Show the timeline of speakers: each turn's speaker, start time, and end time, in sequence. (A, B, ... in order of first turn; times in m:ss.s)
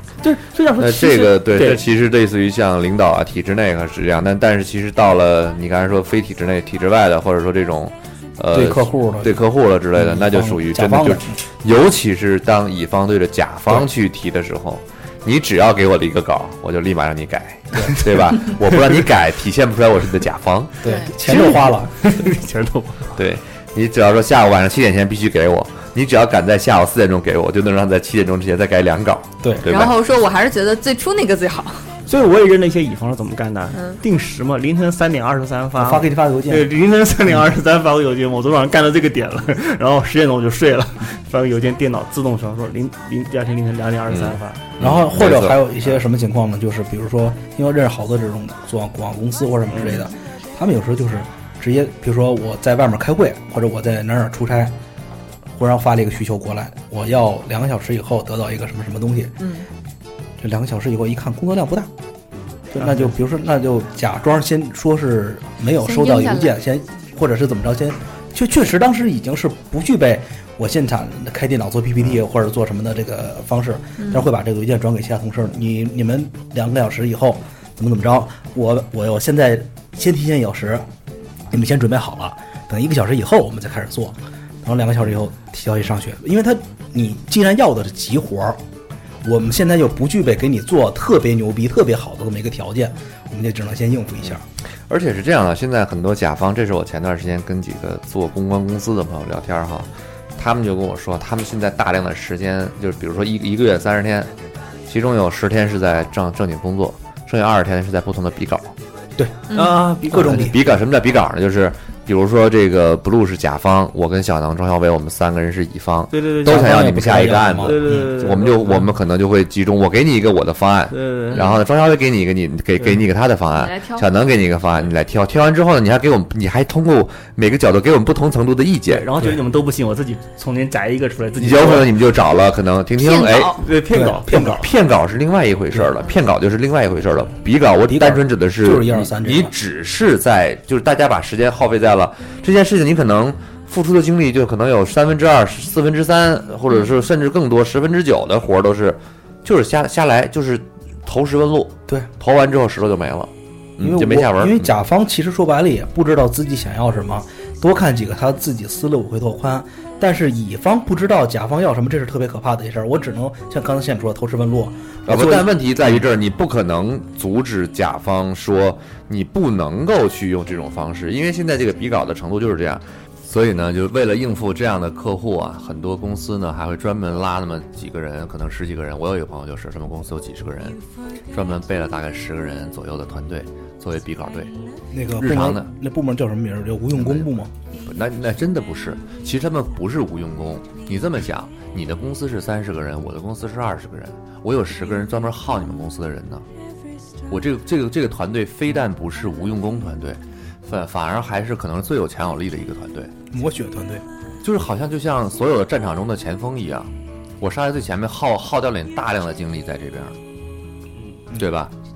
0:00.2-0:01.8 A
0:00.8-0:20.7 B
0:08.5-0:09.4 C
0:09.9-0:11.4 C
0:20.8-0:21.2 D
0:20.8-0:21.9 C
0:21.2-0:23.1 A
0:23.2-0:30.0 B
0:29.7-0:31.9 D
0:32.1-0:44.6 A
0:33.7-0:34.0 D
0:35.8-0:36.7 C
0:44.1-0:45.9 B
0:44.8-0:54.7 C
0:49.7-0:50.1 A
0:55.6-0:59.4 C
0:59.4-0:59.7 D
1:00.4-1:01.9 C
1:02.7-1:20.9 C
1:02.8-1:03.1 A
1:05.8-1:06.6 D
1:14.0-1:14.3 D
1:21.5-1:28.6 C
1:29.2-1:34.4 C
1:34.9-1:44.3 B
1:44.9-1:48.8 B
1:49.2-1:49.5 C
1:49.5-1:49.9 D
1:49.5-1:50.7 A
1:50.0-1:50.6 C
1:50.1-2:09.1 B
1:56.1-1:56.9 A
1:56.4-1:58.1 C
1:57.6-1:58.8 A
2:00.9-2:01.4 A
2:03.5-2:04.3 D
2:08.9-2:11.9 A
2:11.4-2:13.6 B
2:13.0-2:13.6 D
2:13.6-2:14.6 A
2:13.9-2:14.7 C
2:14.3-2:34.7 B
2:17.9-2:19.5 C
2:33.8-2:46.0 C
2:45.1-3:00.8 B
3:01.3-3:04.5 B
3:04.9-3:07.5 C
3:05.2-3:05.7 B
3:07.0-3:16.5 B
3:17.3-3:23.1 B
3:23.3-3:24.0 C
3:24.4-3:30.2 B
3:31.4-3:31.7 B